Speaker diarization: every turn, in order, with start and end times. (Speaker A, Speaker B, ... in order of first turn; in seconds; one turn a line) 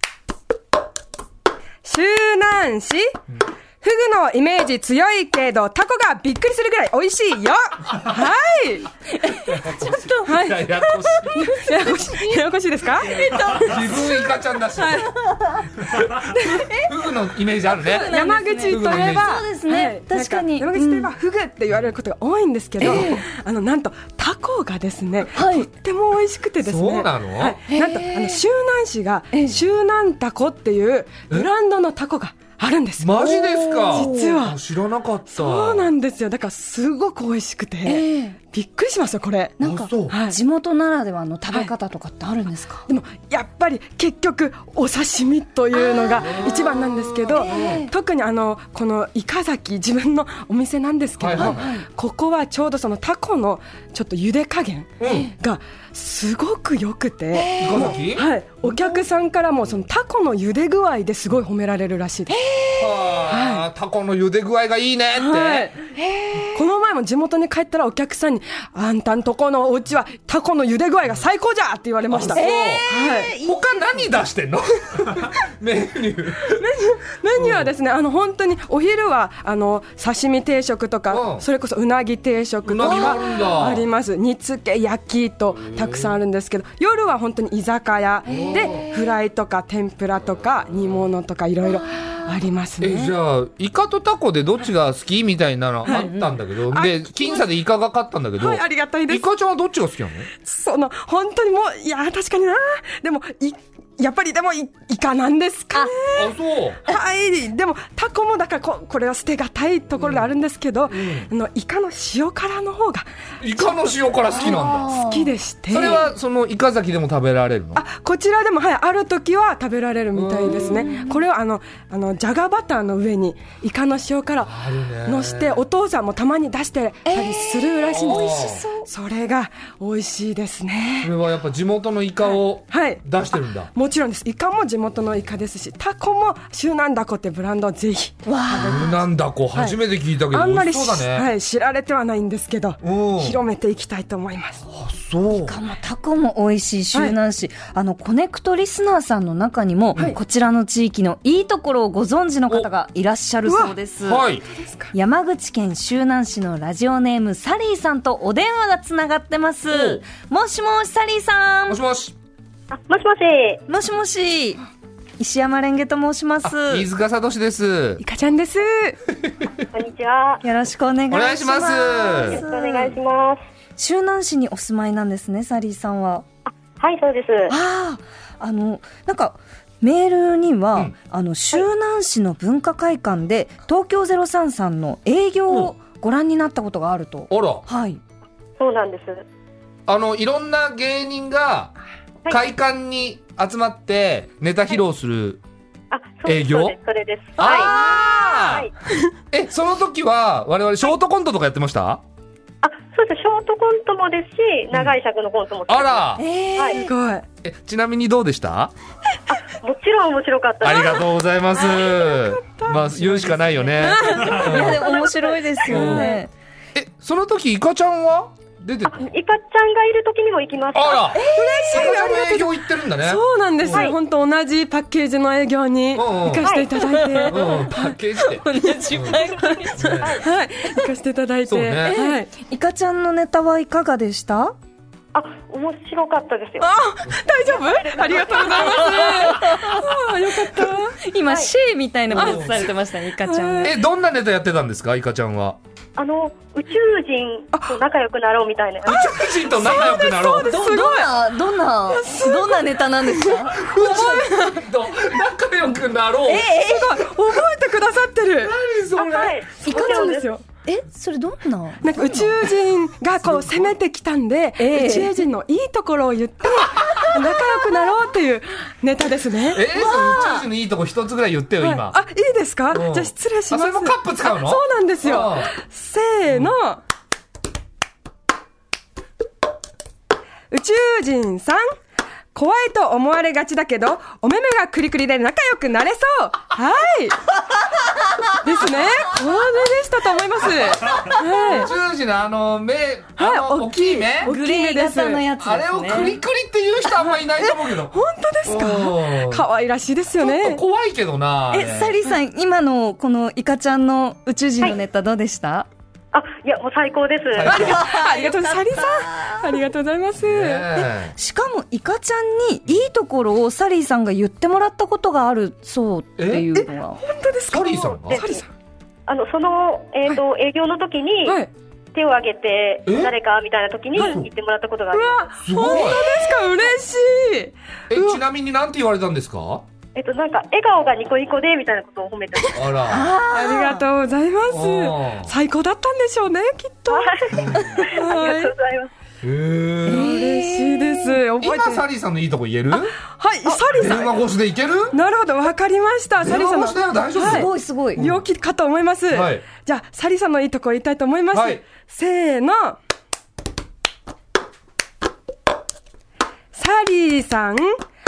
Speaker A: 1.8-3.2
Speaker A: 3.8-8.9
Speaker B: 9.1-10.3
Speaker C: 9.5-11.5
Speaker A: 10.2-14.2
Speaker B: 11.1-12.4
Speaker B: 13.1-14.2
Speaker C: 13.6-15.1
Speaker A: 14.8-15.1
Speaker B: 15.1-15.7
Speaker C: 15.8-18.1
Speaker A: 16.3-16.7
Speaker B: 16.5-16.9
Speaker B: 17.7-21.1
Speaker A: 17.9-33.3
Speaker C: 18.7-19.4
Speaker C: 22.8-23.2
Speaker B: 22.8-23.2
Speaker B: 25.3-25.7
Speaker C: 26.6-27.6
Speaker B: 27.7-28.4
Speaker C: 33.0-35.9
Speaker B: 33.2-34.2
Speaker A: 33.9-34.6
Speaker A: 35.3-40.4
Speaker B: 37.8-38.4
Speaker B: 39.6-42.9
Speaker C: 39.6-40.1
Speaker A: 42.9-62.4
Speaker B: 45.8-46.3
Speaker C: 46.2-47.9
Speaker B: 47.3-47.9
Speaker C: 51.2-51.7
Speaker B: 51.4-51.9
Speaker C: 55.0-55.3
Speaker B: 55.1-55.3
Speaker B: 57.3-58.0
Speaker C: 57.6-58.3
Speaker B: 58.7-59.0
Speaker B: 62.3-62.8
Speaker C: 62.8-65.7
Speaker A: 63.3-63.7
Speaker A: 65.2-65.8
Speaker B: 66.0-66.6
Speaker A: 66.5-73.3
Speaker C: 72.1-76.7
Speaker B: 72.3-74.0
Speaker A: 76.5-93.2
Speaker C: 77.4-77.7
Speaker C: 81.1-81.5
Speaker C: 82.7-83.9
Speaker B: 82.8-83.4
Speaker C: 85.7-86.2
Speaker B: 88.3-89.0
Speaker C: 88.3-88.8
Speaker B: 91.7-92.2
Speaker C: 92.8-100.3
Speaker A: 95.8-96.1
Speaker B: 95.9-96.3
Speaker A: 96.7-97.5
Speaker A: 98.4-99.2
Speaker A: 100.4-113.1
Speaker C: 106.1-106.8
Speaker C: 110.0-110.3
Speaker C: 110.9-111.3
Speaker C: 113.4-115.0
Speaker B: 114.3-115.3
Speaker A: 114.5-116.1
Speaker C: 115.7-117.8
Speaker A: 117.8-131.1
Speaker C: 120.1-120.8
Speaker B: 120.5-121.2
Speaker C: 124.5-125.6
Speaker B: 127.1-128.9
Speaker C: 127.9-128.6
Speaker C: 131.0-133.7
Speaker A: 132.3-139.0
Speaker B: 138.2-139.0
Speaker C: 138.6-141.3
Speaker A: 140.3-144.6
Speaker C: 142.8-143.4
Speaker C: 144.7-145.6
Speaker B: 145.3-154.3
Speaker A: 153.4-153.8
Speaker C: 154.0-154.4
Speaker A: 154.5-154.9
Speaker B: 154.9-161.8
Speaker C: 159.7-160.0
Speaker C: 161.7-162.2
Speaker D: 162.7-163.6
Speaker B: 163.7-164.6
Speaker B: 165.2-166.9
Speaker C: 166.4-168.0
Speaker A: 168.0-169.0
Speaker C: 169.2-169.7
Speaker D: 169.7-170.4
Speaker B: 170.4-172.9
Speaker C: 171.1-172.4
Speaker D: 172.2-173.4
Speaker B: 173.8-176.2
Speaker D: 176.5-177.5
Speaker B: 177.5-188.0
Speaker C: 187.3-187.7
Speaker D: 188.6-189.2
Speaker C: 189.9-191.7
Speaker C: 192.3-195.4
Speaker D: 195.9-197.7
Speaker C: 196.2-196.8
Speaker C: 197.4-198.7
Speaker B: 197.4-198.4
Speaker D: 198.4-198.7
Speaker C: 199.3-202.0
Speaker D: 202.6-206.8
Speaker C: 205.7-206.2
Speaker B: 206.2-206.9
Speaker A: 206.7-207.2
Speaker C: 207.4-208.7
Speaker D: 209.3-211.1
Speaker C: 210.6-214.8
Speaker A: 211.5-216.2
Speaker B: 213.8-216.3
Speaker D: 214.9-215.3
Speaker C: 215.7-216.2
Speaker C: 216.8-219.0
Speaker D: 218.9-221.2
Speaker C: 220.7-223.9
Speaker B: 221.1-222.0
Speaker A: 221.3-227.9
Speaker C: 225.9-226.5
Speaker D: 226.4-226.7
Speaker B: 226.7-229.9
Speaker C: 227.3-230.2
Speaker A: 228.6-232.3
Speaker C: 231.5-232.0
Speaker B: 231.8-234.6
Speaker D: 235.1-236.8
Speaker A: 236.6-241.0
Speaker D: 237.8-239.1
Speaker B: 238.6-240.0
Speaker B: 241.0-243.7
Speaker D: 241.3-241.5
Speaker C: 242.1-242.7
Speaker A: 242.1-243.8
Speaker C: 243.6-245.6
Speaker D: 246.0-249.1
Speaker A: 247.5-247.8
Speaker C: 248.8-250.6
Speaker A: 249.4-251.2
Speaker B: 250.5-254.3
Speaker A: 251.9-254.6
Speaker C: 253.6-256.5
Speaker B: 256.3-257.0
Speaker A: 256.3-258.6
Speaker C: 258.4-259.4
Speaker D: 259.0-260.3
Speaker B: 259.6-262.4
Speaker A: 259.7-260.4
Speaker A: 261.8-269.7
Speaker C: 263.2-263.8
Speaker B: 264.6-265.2
Speaker C: 269.5-272.0
Speaker B: 269.7-270.5
Speaker A: 271.6-276.8
Speaker C: 272.7-275.5
Speaker C: 276.3-276.6
Speaker A: 280.5-281.6
Speaker A: 282.4-287.2
Speaker A: 288.4-291.7
Speaker C: 290.7-294.3
Speaker A: 293.2-295.3
Speaker B: 294.2-296.2
Speaker C: 295.4-299.4
Speaker A: 296.9-300.6
Speaker C: 300.2-301.9
Speaker B: 301.5-305.7
Speaker D: 306.1-307.6
Speaker C: 307.4-307.9
Speaker A: 307.4-310.7
Speaker B: 307.5-309.6
Speaker C: 310.2-311.1
Speaker B: 310.8-317.0
Speaker C: 316.2-316.5
Speaker A: 316.6-318.5
Speaker C: 317.5-318.2
Speaker D: 318.1-318.4
Speaker D: 319.1-321.4
Speaker D: 321.9-326.0
Speaker C: 322.9-323.1
Speaker A: 324.0-324.2
Speaker C: 324.0-324.3
Speaker A: 324.9-328.2
Speaker C: 325.4-326.1
Speaker C: 327.9-329.6
Speaker D: 329.9-332.9
Speaker C: 332.5-333.1
Speaker B: 332.9-333.8
Speaker A: 333.3-338.5
Speaker C: 334.5-335.3
Speaker D: 336.9-338.9
Speaker C: 337.3-337.8
Speaker C: 339.2-340.1
Speaker B: 339.9-341.2
Speaker A: 339.9-341.8
Speaker C: 341.4-343.0
Speaker A: 342.7-344.2
Speaker C: 343.6-345.0
Speaker A: 344.9-352.8
Speaker C: 346.2-348.3
Speaker B: 347.1-348.0
Speaker C: 349.1-349.4
Speaker C: 351.3-351.6
Speaker A: 356.5-357.8